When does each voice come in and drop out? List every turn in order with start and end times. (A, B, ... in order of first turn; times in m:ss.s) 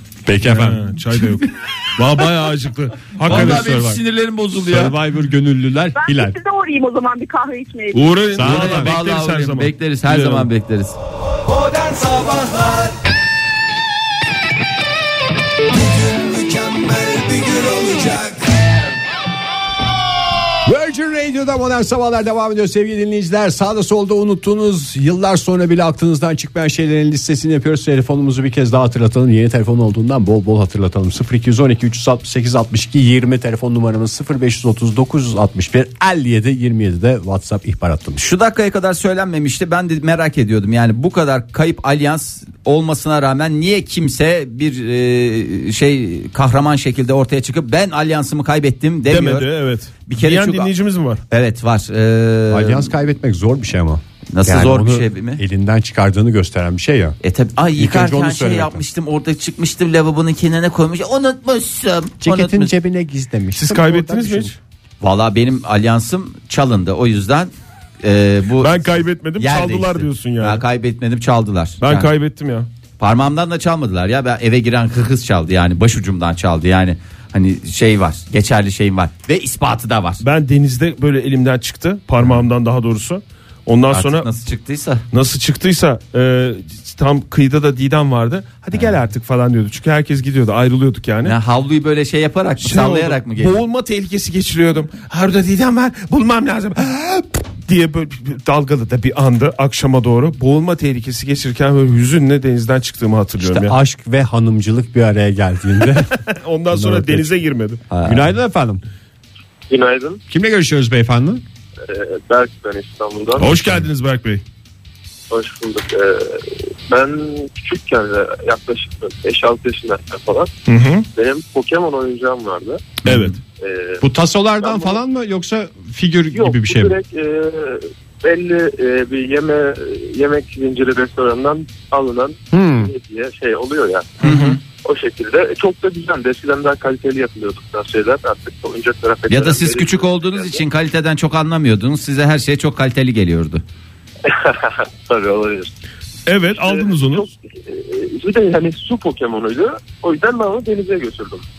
0:00.2-0:00.8 A
0:00.4-0:03.8 B
0:03.2-0:04.9 C
0:03.2-0:04.0 A
0:04.5-0:06.3 A
0:06.0-0:08.2 D
0:07.9-0:10.5 B
0:08.4-0:08.9 A
0:08.4-0:11.0 C
0:11.4-0:13.0 E
0:15.7-0:18.6 E
0:20.6-0:38.2 A
0:38.2-0:49.5 C
0:49.1-0:51.2 B
0:50.1-0:50.7 C
0:51.3-0:52.9 C
0:52.5-0:57.2 A
0:54.3-0:55.4 C
0:57.2-1:02.7 C
0:57.8-0:58.8 A
1:02.2-1:04.5 A
1:03.6-1:04.5 B
1:05.0-1:07.5 C
1:08.0-1:12.1 C
1:08.6-1:10.6 B
1:11.8-1:12.7 B
1:13.0-1:20.2 C
1:20.2-1:24.3 B
1:23.9-1:25.0 C
1:25.1-1:31.3 B
1:31.2-1:33.5 C
1:32.6-1:43.8 B
1:43.4-1:47.3 A
1:46.2-1:47.8 B
1:47.9-1:48.3 C
1:48.0-1:48.8 A
1:49.7-1:50.2 F
1:50.3-1:51.4 A
1:51.8-1:53.6 F
1:53.4-1:54.4 B
1:55.3-2:00.5 F
2:00.7-2:01.1 B
2:01.1-2:02.9 F
2:03.0-2:03.4 B
2:03.6-2:04.0 F
2:04.0-2:07.0 A
2:04.6-2:05.0 F
2:06.3-2:14.1 F
2:12.5-2:12.9 A
2:14.2-2:14.6 C
2:14.2-2:14.6 B
2:14.8-2:20.6 F
2:19.3-2:23.6 C
2:24.2-2:25.8 F
2:26.2-2:27.3 B
2:26.5-2:31.4 F